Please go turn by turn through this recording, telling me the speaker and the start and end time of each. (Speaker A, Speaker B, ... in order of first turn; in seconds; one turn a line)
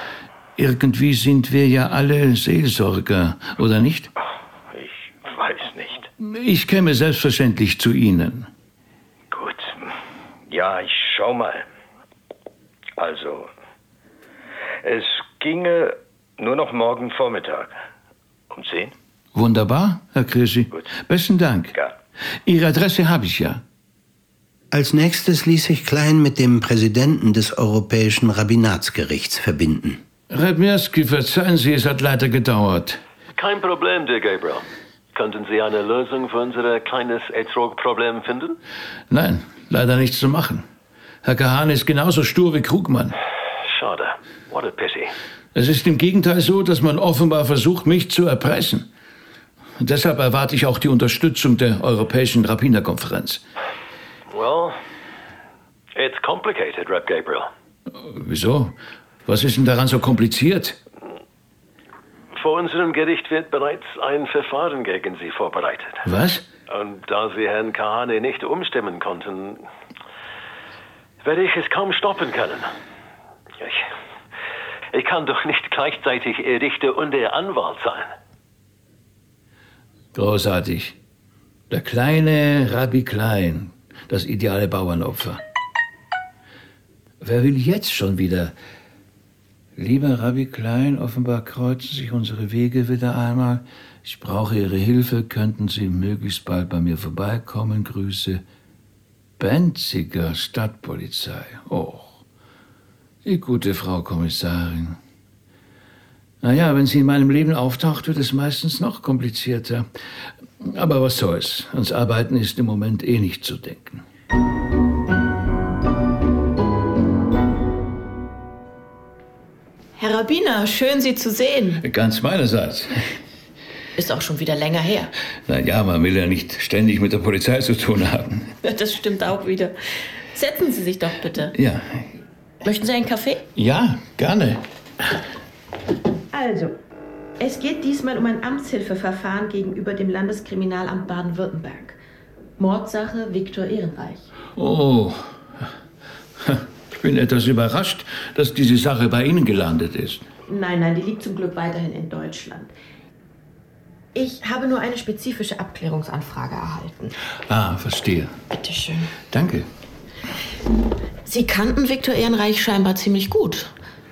Speaker A: 0.6-4.1
Speaker B: 4.2-6.1
Speaker A: 6.2-8.5
Speaker B: 9.3-9.9
Speaker B: 10.5-11.7
Speaker B: 13.0-13.5
Speaker B: 14.8-17.7
Speaker B: 18.5-18.9
Speaker A: 19.4-21.8
Speaker A: 22.4-23.6
Speaker C: 24.7-30.0
Speaker A: 30.3-33.0
Speaker D: 33.4-38.6
Speaker A: 39.1-40.6
Speaker A: 41.2-43.2
Speaker D: 43.6-45.1
Speaker A: 45.5-48.9
Speaker A: 49.8-53.4
Speaker D: 54.3-54.8
Speaker D: 55.9-57.5
Speaker A: 57.9-58.7
Speaker A: 59.2-60.8
Speaker D: 62.3-66.0
Speaker A: 66.0-66.5
Speaker D: 66.7-69.6
Speaker D: 71.2-72.7
Speaker D: 73.6-73.8
Speaker D: 74.9-78.1
Speaker A: 80.1-81.0
Speaker A: 81.7-85.4
Speaker A: 87.2-88.5
Speaker A: 89.8-98.4
Speaker A: 99.4-102.2
Speaker A: 103.2-105.0
Speaker A: 106.4-109.9
Speaker A: 110.6-114.0
Speaker E: 120.0-121.8
Speaker A: 121.8-123.1
Speaker E: 124.0-125.1
Speaker A: 125.5-128.5
Speaker E: 128.6-129.7
Speaker E: 130.3-131.5
Speaker A: 131.6-132.1
Speaker E: 132.6-133.4
Speaker A: 133.6-134.6
Speaker E: 136.3-136.7
Speaker E: 137.4-142.0
Speaker E: 142.6-144.3
Speaker A: 144.6-145.4
Speaker A: 146.4-150.3
Speaker E: 150.5-152.7
Speaker E: 154.1-157.1
Speaker A: 157.5-158.4
Speaker E: 158.5-159.1
Speaker A: 159.3-159.7
Speaker E: 161.2-163.7